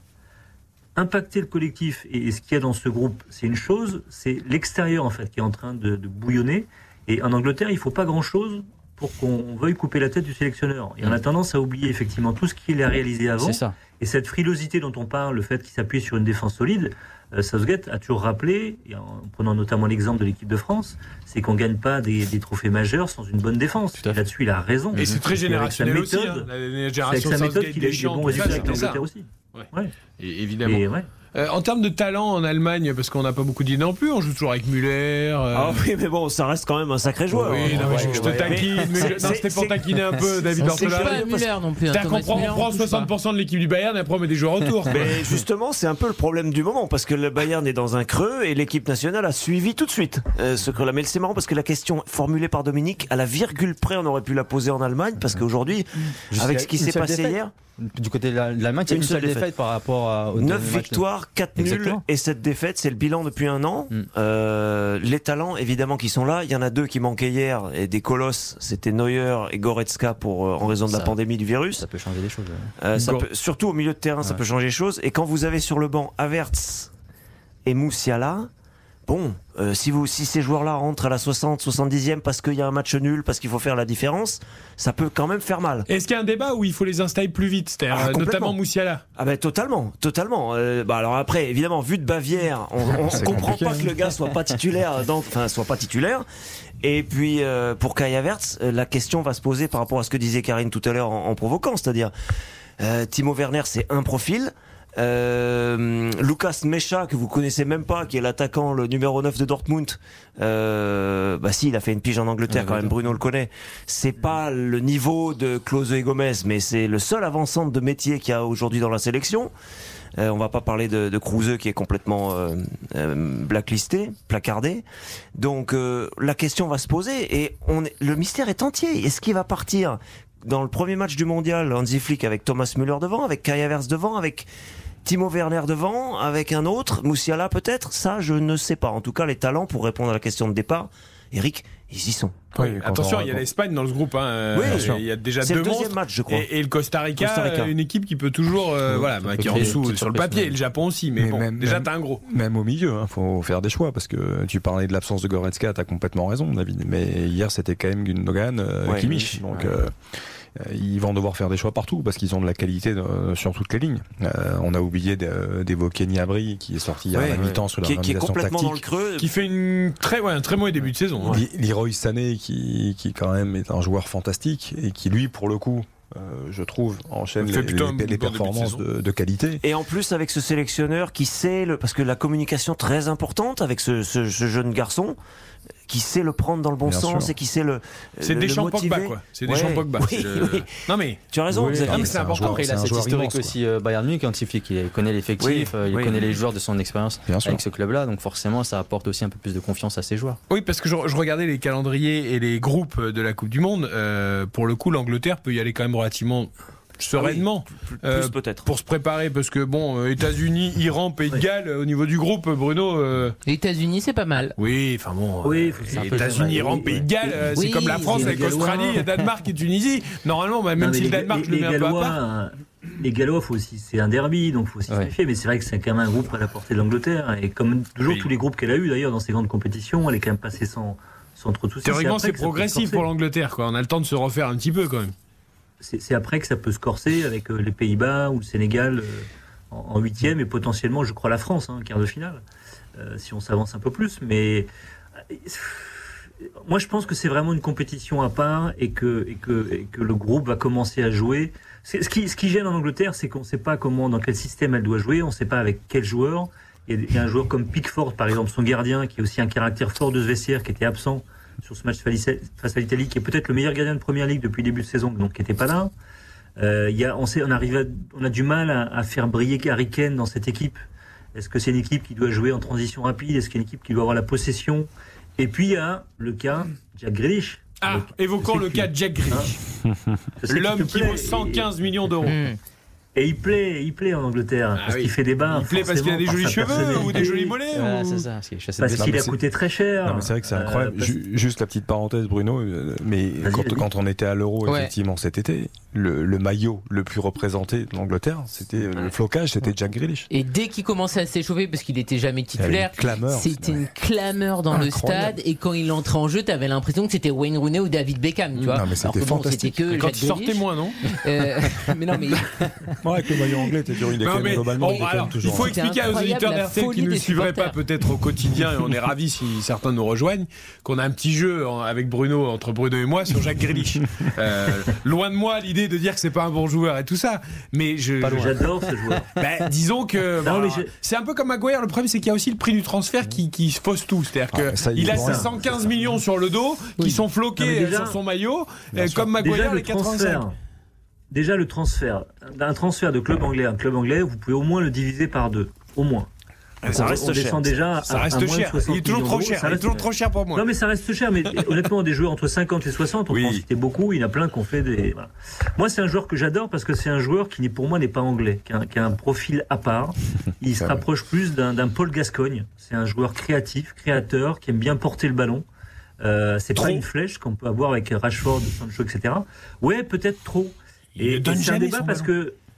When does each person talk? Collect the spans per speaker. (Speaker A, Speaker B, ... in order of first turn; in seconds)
Speaker A: 1.0-26.5, 27.0-29.9, 30.6-31.1, 215.4-217.4, 218.1-219.1, 220.8-233.1, 235.8-242.4, 243.0-244.7, 245.3-246.0, 246.6-265.9, 266.6-270.8, 271.4-278.1, 279.3-279.6, 280.4-281.7, 283.1-287.6, 288.8-291.2, 293.4-293.9, 328.2-329.3, 330.4-330.9, 335.0-335.5, 337.6-338.2, 339.4-340.6, 341.3-346.3, 346.9-365.6, 366.2-372.6
Speaker B: 13.4-13.8, 25.0-25.2, 37.4-39.2, 56.3-61.0, 61.6-62.0, 70.9-71.2, 71.8-72.7, 112.5-113.0, 148.9-150.6, 159.1-159.8, 167.2-167.6, 191.6-200.4, 215.9-217.1, 286.9-289.3
Speaker C: 24.9-29.0, 30.2-35.9, 37.4-45.0, 85.9-89.0, 142.6-152.2, 169.2-171.4, 177.4-178.8, 188.2-192.9, 200.5-213.4, 214.6-222.2, 231.8-235.1, 277.8-279.6, 280.5-282.5, 284.8-288.3, 308.6-308.8, 309.9-311.0, 314.2-328.6, 329.4-340.4, 348.1-350.7, 366.8-367.0, 371.2-372.3
Speaker D: 28.3-28.9, 35.5-41.1, 44.9-57.5, 58.9-59.5, 60.4-71.8, 72.8-76.9, 77.7-78.5, 79.1-85.9, 87.9-88.6, 89.2-96.3, 96.8-102.1, 102.8-119.5, 120.2-124.8, 125.4-134.5, 135.1-142.5, 144.5-146.5, 147.2-147.7, 158.8-159.1, 167.1-169.3, 179.6-185.2, 185.9-192.1, 195.4-196.3, 207.1-208.7, 346.8-347.7
Speaker E: 40.6-43.1, 213.4-214.6, 217.6-218.4, 282.2-282.6, 300.3-312.5, 314.8-317.8
Speaker F: 93.1-93.9, 142.6-143.4, 144.6-145.0, 149.5-149.8, 151.2-160.0, 160.6-168.8, 171.3-179.6, 186.9-187.3, 191.5-193.6, 197.3-197.6, 279.8-280.2, 288.9-289.4, 290.0-300.3, 302.6-303.9, 304.7-305.4, 308.7-309.8, 313.0-315.8, 334.5-335.9, 338.9-339.3, 353.3-353.6